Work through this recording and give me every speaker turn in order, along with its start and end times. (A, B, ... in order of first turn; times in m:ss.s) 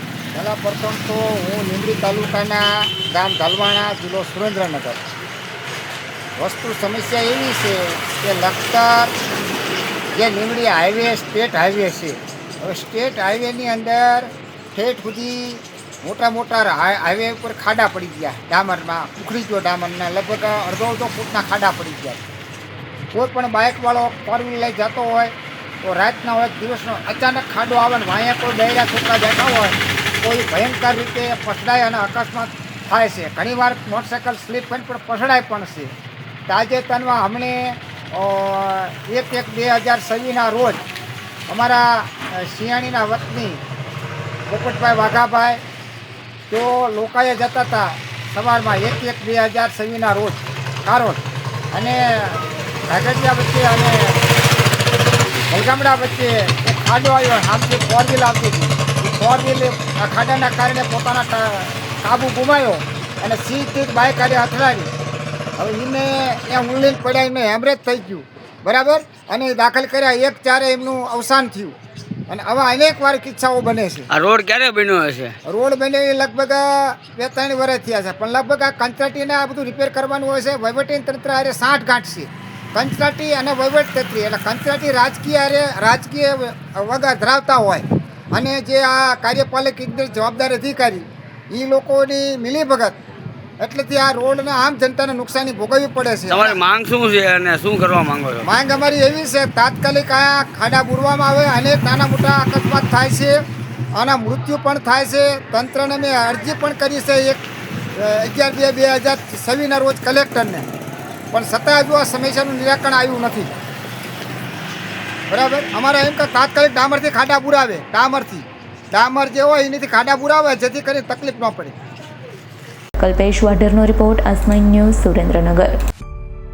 0:00.3-0:05.0 A
0:06.4-0:09.1 A
0:10.2-0:22.2 A
0:23.1-0:25.3 A
0:25.8-0:35.9 A
0:36.5-0:40.8 A
0:41.5-0:43.6 A
0:44.5-0:45.6 A
0:46.5-0:51.2 A
0:51.7-0:54.2 A
0:55.5-1:04.9 A
1:05.6-1:11.8 A
1:12.3-1:14.1 A
1:14.1-1:15.3 B
1:15.4-1:33.0 A
1:33.6-1:36.6 A
1:36.3-1:38.4 B
1:38.4-1:43.4 A
1:43.9-1:47.4 A
1:48.0-1:50.7 A
1:51.3-1:53.5 A
1:55.3-2:01.7 A
2:03.0-2:05.8 C